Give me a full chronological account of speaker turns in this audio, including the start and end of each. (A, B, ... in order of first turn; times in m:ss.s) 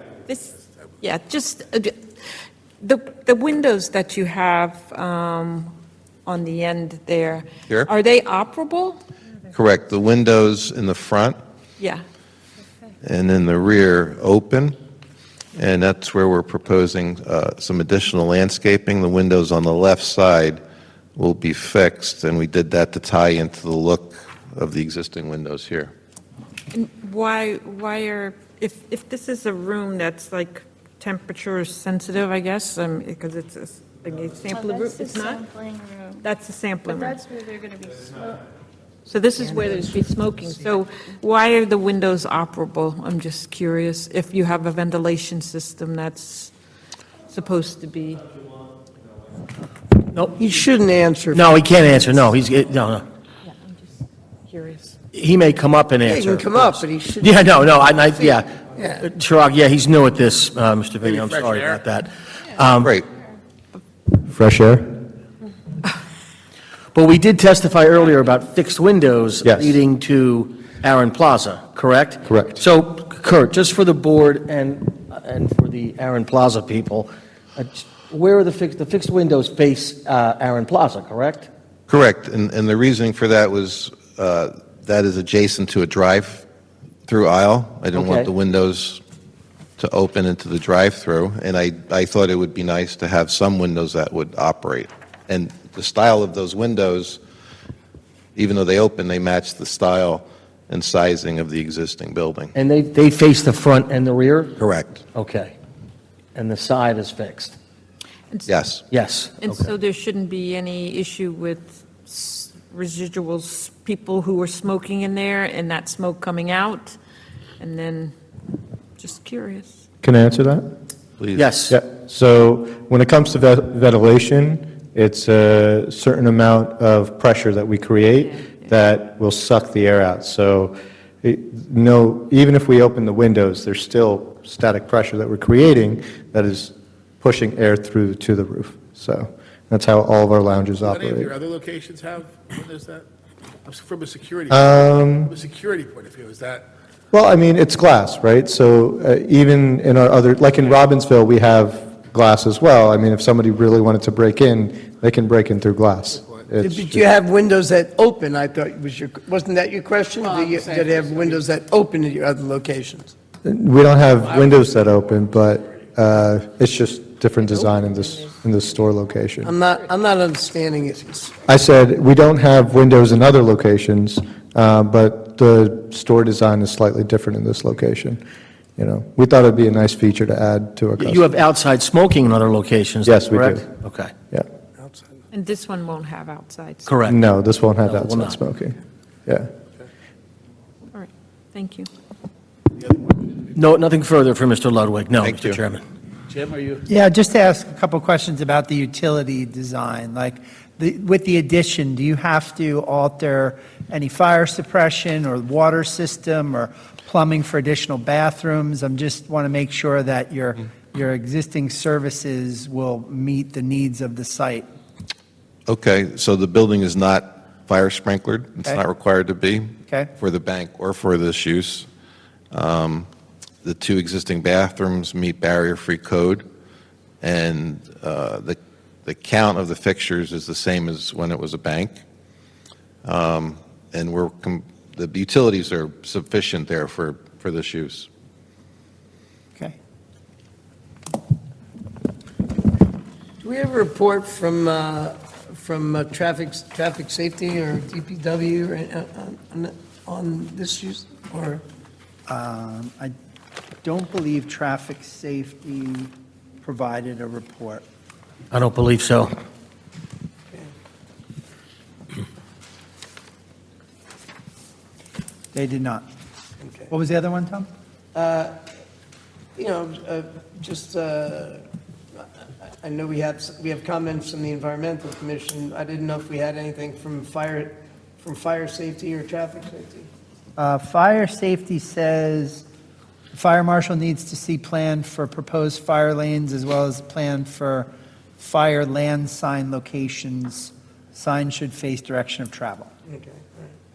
0:00.3-0:02.0 A
0:02.8-0:05.7 A
0:06.2-0:09.0 A
0:09.5-0:11.4 B
0:13.0-0:14.8 B
0:15.5-0:20.6 B
0:21.2-0:25.9 B
0:26.7-0:35.4 A
0:34.5-0:36.2 C
0:36.2-0:37.2 A
0:36.9-0:38.4 C
0:39.0-0:46.5 A
0:47.3-0:48.2 A
0:50.1-0:50.4 D
0:50.4-0:51.6 E
0:51.3-0:53.0 D
0:53.4-0:53.9 A
0:54.5-0:55.0 A
0:55.1-1:02.9 D
0:56.0-0:57.5 E
0:58.0-0:59.0 E
1:01.0-1:01.8 F
1:02.8-1:03.0 B
1:04.2-1:04.9 G
1:06.9-1:21.5 D
1:09.4-1:09.8 G
1:12.2-1:12.6 G
1:21.9-1:26.4 B
1:27.0-1:29.0 B
1:28.0-1:28.3 D
1:29.8-1:37.2 B
1:38.3-1:42.6 B
1:42.6-1:44.5 D
1:44.6-1:45.0 B
1:45.1-1:45.5 D
1:46.3-1:47.5 D
1:48.4-1:48.8 B
1:48.9-1:49.3 D
1:49.4-1:57.0 A
1:57.6-1:58.1 A
1:59.0-1:59.8 A
2:00.0-2:00.6 G
2:01.2-2:01.5 B
2:01.4-2:01.8 D
2:01.7-2:21.3 G
2:20.8-2:23.1 F
2:23.6-2:26.7 F
2:24.5-2:25.3 G
2:27.1-2:37.0 G
2:36.6-2:43.1 E
2:40.2-2:41.5 F
2:43.4-2:49.5 G
2:44.2-2:44.7 F
2:47.4-2:48.4 A
2:49.4-2:51.4 E
2:51.5-2:58.2 G
2:58.8-3:01.3 G
3:01.0-3:04.1 D
3:03.0-3:03.7 G
3:04.8-3:05.1 E
3:05.3-3:07.0 A
3:06.8-3:07.2 D
3:07.1-3:09.5 G
3:07.8-3:08.4 D
3:10.9-3:11.9 A
3:13.5-3:15.8 D
3:15.2-3:15.6 B
3:16.3-3:16.8 F
3:16.9-3:34.7 H
3:35.7-3:41.9 B
3:42.5-3:43.1 B
3:43.6-3:46.4 B
3:47.2-3:52.0 B
3:53.0-3:58.1 B
4:03.4-4:11.6 E
4:12.3-4:13.1 H
4:13.8-4:17.8 H
4:18.5-4:19.3 D
4:25.5-4:26.0 H
4:26.6-4:26.9 E
4:26.9-4:27.7 H
4:28.1-4:28.6 E
4:29.6-4:31.6 E
4:32.2-4:40.1 E
4:40.6-4:42.6 H
4:43.3-4:52.9 H
4:53.1-4:53.7 E